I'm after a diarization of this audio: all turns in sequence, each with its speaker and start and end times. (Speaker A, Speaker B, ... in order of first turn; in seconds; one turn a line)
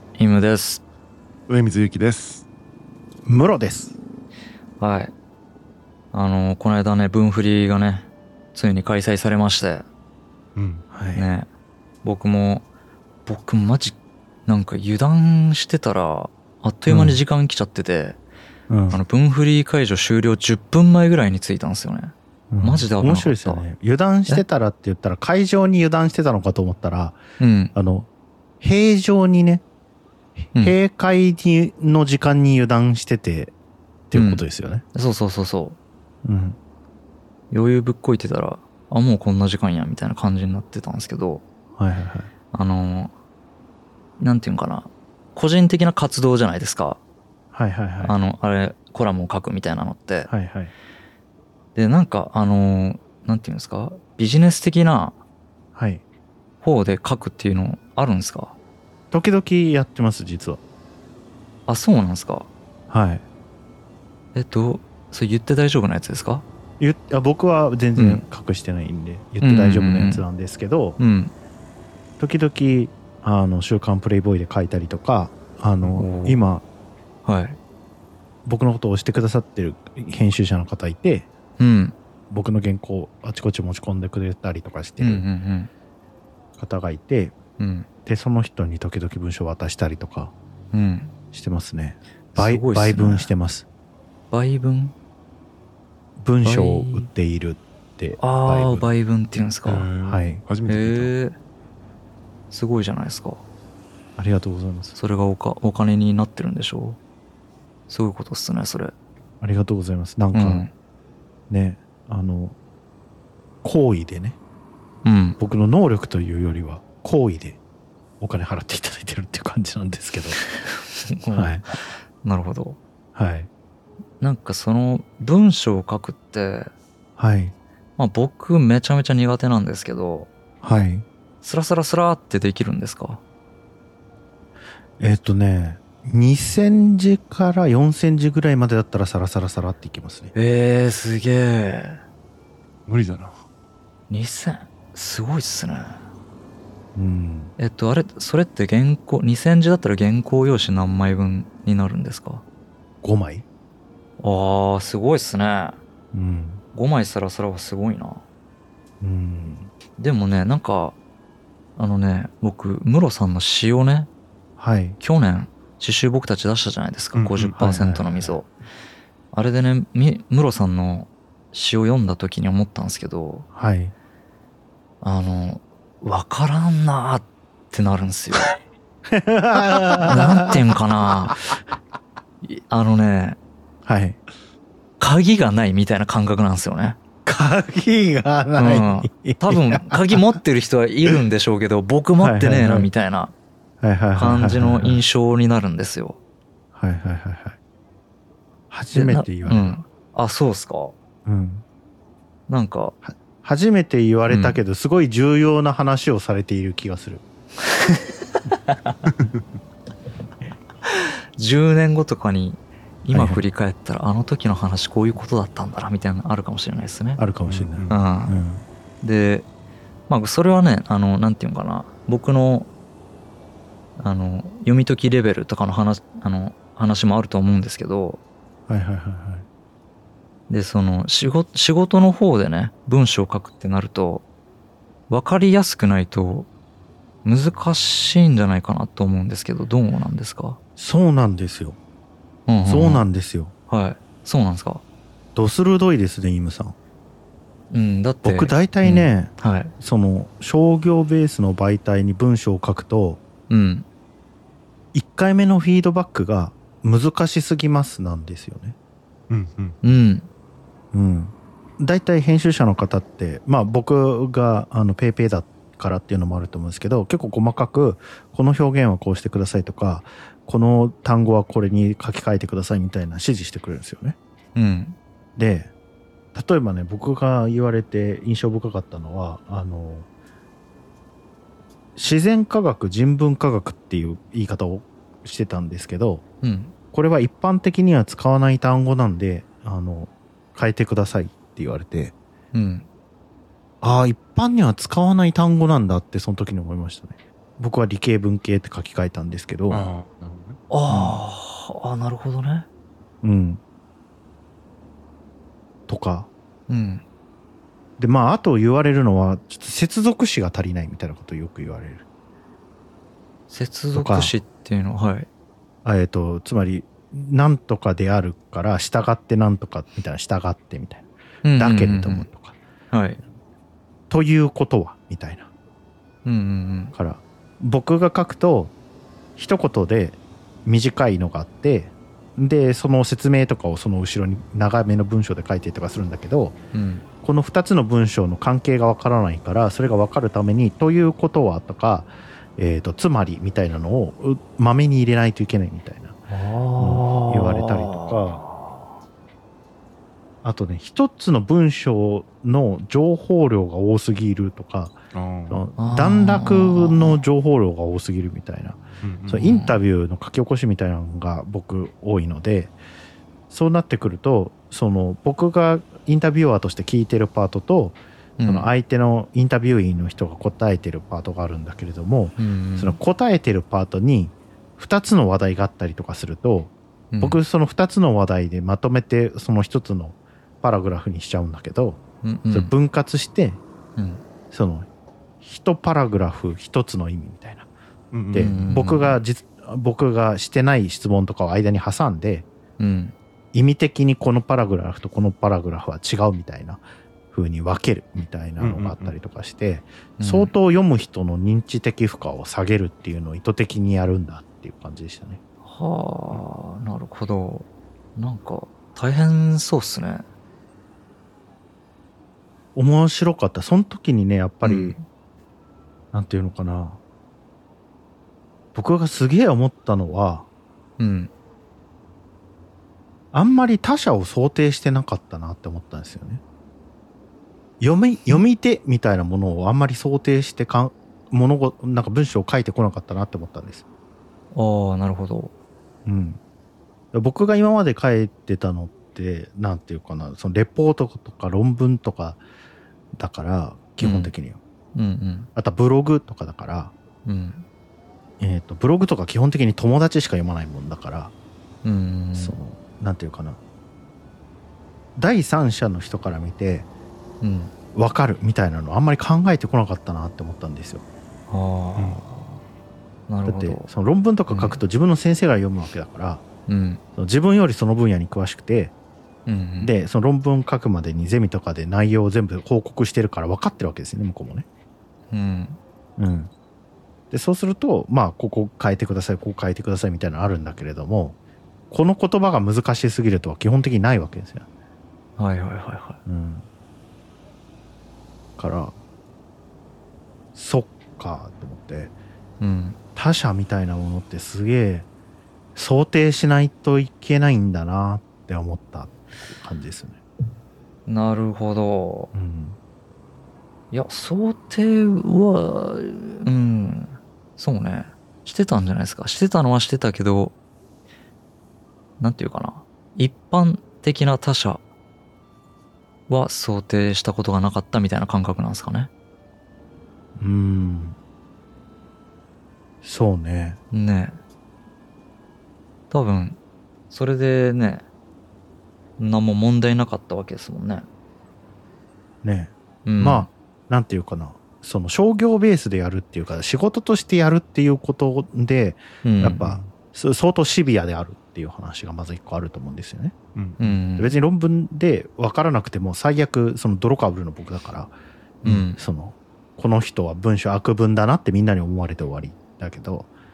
Speaker A: 0.2-0.8
Speaker B: 1.5-2.5
Speaker C: 3.2-4.0
Speaker A: 4.8-5.1
Speaker A: 6.1-9.9
Speaker B: 10.6-10.8
Speaker C: 10.9-11.3
Speaker A: 11.1-11.5
Speaker A: 12.0-12.7
Speaker A: 13.3-18.2
Speaker C: 16.9-17.2
Speaker C: 18.7-19.0
Speaker A: 18.9-23.6
Speaker C: 22.5-27.2
Speaker A: 27.4-27.7
Speaker C: 27.7-28.1
Speaker C: 28.6-29.6
Speaker C: 30.4-33.5
Speaker C: 34.1-34.8
Speaker A: 34.1-35.8
Speaker C: 36.2-36.6
Speaker A: 37.5-41.4
Speaker C: 41.8-42.3
Speaker A: 42.5-43.1
Speaker A: 44.2-47.0
Speaker C: 47.5-48.1
Speaker A: 48.0-50.3
Speaker C: 50.3-50.7
Speaker A: 51.8-55.2
Speaker C: 55.8-56.0
Speaker A: 56.6-58.5
Speaker C: 59.1-60.6
Speaker A: 61.7-62.5
Speaker C: 62.9-63.2
Speaker A: 64.3-66.5
Speaker C: 66.8-71.0
Speaker A: 68.0-68.2
Speaker A: 69.4-70.3
Speaker A: 71.0-71.3
Speaker C: 72.2-76.6
Speaker A: 75.8-76.4
Speaker A: 77.2-77.6
Speaker C: 78.5-81.3
Speaker A: 81.6-82.0
Speaker C: 82.3-85.2
Speaker A: 85.0-85.7
Speaker C: 86.6-87.4
Speaker A: 87.6-87.9
Speaker C: 88.0-90.3
Speaker A: 90.7-91.1
Speaker C: 91.3-93.7
Speaker A: 92.3-93.3
Speaker A: 94.3-95.0
Speaker C: 96.2-98.9
Speaker A: 96.4-97.1
Speaker A: 98.2-99.9
Speaker B: 99.7-101.1
Speaker C: 100.0-100.4
Speaker A: 100.7-101.4
Speaker A: 102.5-103.4
Speaker C: 104.2-105.0
Speaker A: 105.0-107.0
Speaker A: 107.9-108.9
Speaker C: 109.4-110.6
Speaker A: 110.3-110.7
Speaker C: 111.5-112.6
Speaker C: 113.6-114.4
Speaker A: 115.0-115.4
Speaker C: 115.4-117.6
Speaker C: 118.2-120.4
Speaker A: 120.4-122.8
Speaker C: 121.3-121.6
Speaker C: 123.2-123.5
Speaker A: 124.2-126.7
Speaker C: 127.2-127.5
Speaker A: 128.0-130.3
Speaker C: 130.6-131.1
Speaker A: 131.4-133.2
Speaker C: 135.0-140.3
Speaker A: 140.3-142.0
Speaker B: 142.9-143.4
Speaker A: 144.1-146.0
Speaker C: 146.9-147.5
Speaker A: 147.6-152.4
Speaker C: 153.0-153.4
Speaker A: 154.2-155.8
Speaker C: 156.1-156.6
Speaker A: 156.7-158.2
Speaker C: 159.0-159.7
Speaker A: 160.0-161.0
Speaker A: 161.8-164.1
Speaker C: 164.6-165.0
Speaker A: 165.0-168.5
Speaker B: 167.2-167.6
Speaker C: 167.6-168.4
Speaker A: 169.3-173.5
Speaker C: 173.5-173.9
Speaker A: 175.0-178.5
Speaker C: 179.1-180.6
Speaker A: 180.1-181.4
Speaker A: 182.4-183.4
Speaker C: 183.8-184.2
Speaker A: 185.0-187.0
Speaker C: 187.3-190.2
Speaker A: 188.6-193.3
Speaker C: 192.2-192.9
Speaker C: 193.8-195.0
Speaker A: 194.2-196.2
Speaker C: 196.7-197.6
Speaker C: 198.7-199.8
Speaker A: 198.9-200.9
Speaker C: 201.2-201.7
Speaker A: 202.5-203.0
Speaker C: 203.0-207.2
Speaker A: 204.3-204.6
Speaker A: 208.7-209.0
Speaker B: 209.1-209.4
Speaker A: 210.9-217.2
Speaker C: 213.1-213.4
Speaker C: 217.2-218.6
Speaker B: 217.5-218.0
Speaker A: 217.9-218.4
Speaker A: 219.0-219.5
Speaker A: 220.1-222.7
Speaker A: 224.0-228.2
Speaker C: 228.7-229.5
Speaker A: 230.5-234.2
Speaker A: 235.1-236.5
Speaker A: 237.2-240.6
Speaker C: 240.8-241.8
Speaker A: 242.5-243.0
Speaker C: 242.7-243.5
Speaker A: 243.7-244.8
Speaker C: 245.3-246.8
Speaker A: 247.7-249.7
Speaker C: 248.2-253.2
Speaker A: 253.5-253.8
Speaker C: 254.9-258.8
Speaker B: 259.3-259.8
Speaker A: 259.8-260.3
Speaker C: 260.9-274.2
Speaker A: 274.6-275.0
Speaker C: 275.4-275.7
Speaker C: 276.3-280.1
Speaker C: 282.0-286.2
Speaker A: 286.4-286.7
Speaker C: 286.9-292.1
Speaker A: 292.5-292.9
Speaker C: 293.8-299.9
Speaker B: 299.7-300.6
Speaker A: 300.7-302.7
Speaker C: 300.9-301.2
Speaker C: 303.2-303.6
Speaker C: 305.9-306.3
Speaker A: 306.7-307.0
Speaker C: 308.0-312.0
Speaker A: 313.5-315.3
Speaker C: 313.9-314.3
Speaker C: 315.8-322.6
Speaker A: 321.4-322.3
Speaker A: 322.9-323.2
Speaker C: 324.1-325.5
Speaker A: 326.2-326.9
Speaker C: 326.9-328.7
Speaker C: 329.4-336.6
Speaker A: 336.7-337.1
Speaker C: 337.2-346.2
Speaker A: 346.3-348.9
Speaker C: 346.8-348.4
Speaker C: 350.4-362.8
Speaker B: 355.1-355.7
Speaker A: 355.8-357.2
Speaker B: 359.0-359.5
Speaker A: 359.4-359.8
Speaker C: 363.5-383.6
Speaker A: 368.4-368.7
Speaker A: 372.4-373.0
Speaker A: 377.1-377.4
Speaker A: 382.2-382.7
Speaker A: 384.0-384.2
Speaker C: 384.5-384.9
Speaker C: 385.4-387.7
Speaker B: 388.1-388.7
Speaker C: 388.3-392.5
Speaker A: 388.4-389.2
Speaker A: 392.8-393.1
Speaker C: 393.5-405.4
Speaker B: 398.6-399.1
Speaker A: 400.2-400.5
Speaker A: 405.6-410.2
Speaker C: 412.8-415.0
Speaker A: 414.6-415.0
Speaker C: 416.1-417.0
Speaker C: 418.7-420.5
Speaker A: 421.0-421.3
Speaker C: 423.3-426.4
Speaker C: 427.8-433.8
Speaker A: 434.5-435.5
Speaker C: 436.1-436.4
Speaker C: 437.1-442.4
Speaker C: 443.1-444.6
Speaker A: 444.0-444.3
Speaker A: 444.9-445.5
Speaker C: 445.6-446.9
Speaker A: 447.2-447.7
Speaker C: 448.4-451.3
Speaker A: 451.8-452.6
Speaker C: 452.4-453.6
Speaker C: 455.2-456.9
Speaker A: 457.4-457.7
Speaker C: 457.9-461.1
Speaker A: 461.5-462.6
Speaker B: 462.0-462.2
Speaker A: 463.3-463.9
Speaker C: 463.5-466.4
Speaker A: 464.5-464.8
Speaker A: 466.7-467.0
Speaker C: 467.2-468.9
Speaker A: 469.5-469.9
Speaker C: 469.8-474.7
Speaker A: 475.3-475.8
Speaker C: 476.2-476.5
Speaker C: 477.3-481.4
Speaker C: 481.9-484.7
Speaker A: 485.4-486.2
Speaker C: 486.3-486.7
Speaker C: 488.6-488.9
Speaker C: 490.6-492.1
Speaker A: 492.6-493.0
Speaker C: 493.2-495.1
Speaker C: 495.8-500.2
Speaker A: 501.1-502.3
Speaker C: 502.3-502.8
Speaker A: 503.9-510.6
Speaker A: 512.2-514.8
Speaker A: 516.3-519.1
Speaker C: 520.4-521.2
Speaker C: 523.0-523.8
Speaker A: 523.9-524.4
Speaker A: 526.1-526.6
Speaker A: 527.1-528.0
Speaker A: 529.2-531.1
Speaker C: 532.4-543.4
Speaker A: 533.1-533.5
Speaker A: 539.2-539.6
Speaker B: 539.6-539.9
Speaker B: 543.5-544.0
Speaker A: 543.8-544.4
Speaker C: 544.2-548.1
Speaker A: 548.6-549.0
Speaker C: 548.6-553.3